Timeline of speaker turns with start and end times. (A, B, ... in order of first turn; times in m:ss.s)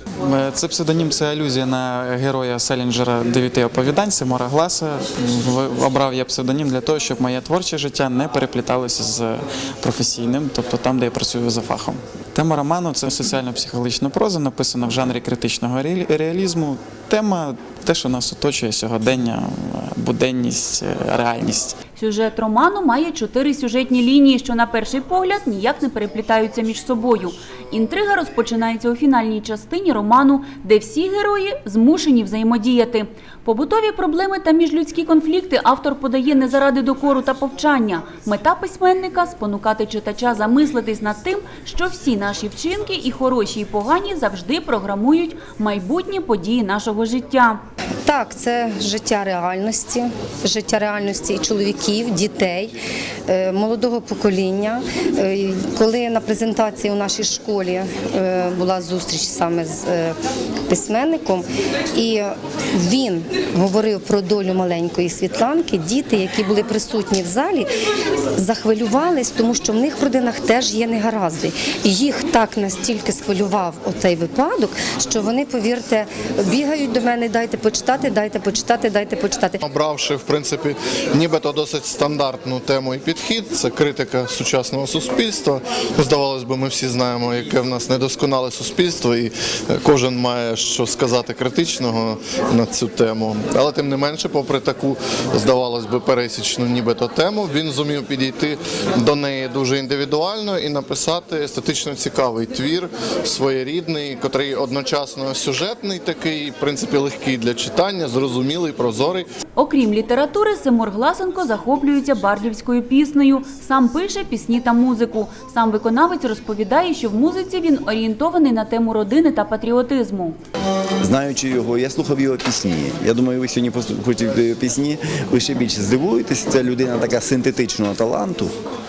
0:00.2-0:21.8 A
0:22.0-0:47.6 B
0:48.0-0:52.7 C
0:53.3-1:00.1 C
1:00.7-1:07.7 C
1:08.3-1:19.6 C
1:19.6-1:49.2 D
1:49.6-2:00.4 B
2:01.0-2:08.5 E